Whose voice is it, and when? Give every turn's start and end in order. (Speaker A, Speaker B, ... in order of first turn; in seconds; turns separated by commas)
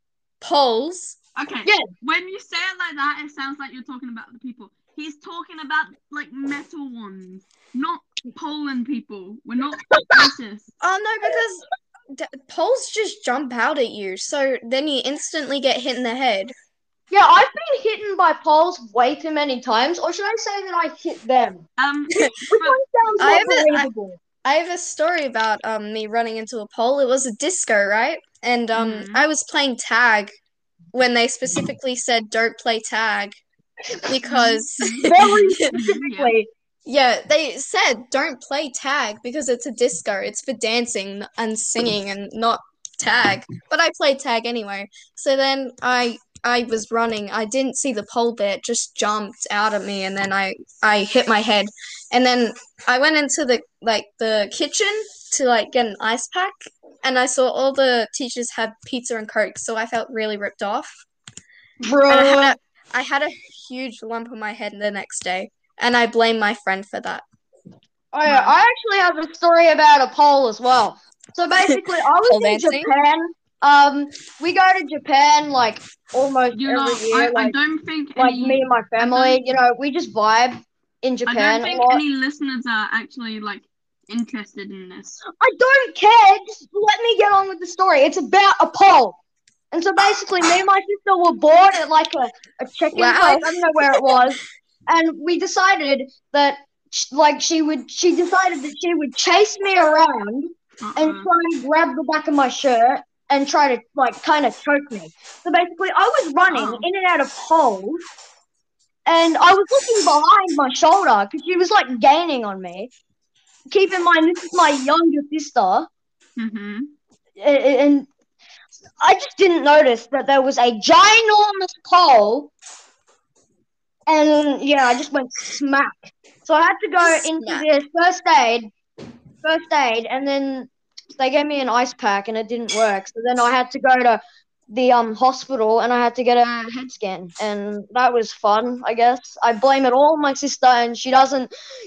Speaker A: 0.4-1.2, Speaker B: 1.4-10.7, Speaker C: 9.9-10.3, Speaker A: 10.8-16.5, Speaker C: 17.1-21.6, Speaker B: 21.8-22.8, Speaker C: 22.5-24.2, Speaker A: 23.2-23.9, Speaker A: 24.4-30.3, Speaker B: 28.7-29.2, Speaker A: 30.9-33.4, Speaker A: 34.1-35.8, Speaker B: 34.2-36.3, Speaker C: 35.1-36.5, Speaker A: 36.9-60.9, Speaker C: 61.8-62.5, Speaker A: 62.1-67.2, Speaker C: 68.1-77.5, Speaker B: 68.2-68.5, Speaker A: 71.6-72.9, Speaker B: 76.5-79.4, Speaker C: 78.2-82.0, Speaker B: 81.3-85.2, Speaker C: 85.4-89.2, Speaker C: 89.7-108.0, Speaker A: 92.9-94.2, Speaker B: 100.8-101.3, Speaker B: 106.5-106.9, Speaker C: 109.0-112.9, Speaker C: 113.7-115.9, Speaker B: 116.4-116.9, Speaker C: 117.4-118.1, Speaker C: 119.0-122.5, Speaker C: 124.1-128.7, Speaker A: 127.0-127.7, Speaker C: 129.4-141.5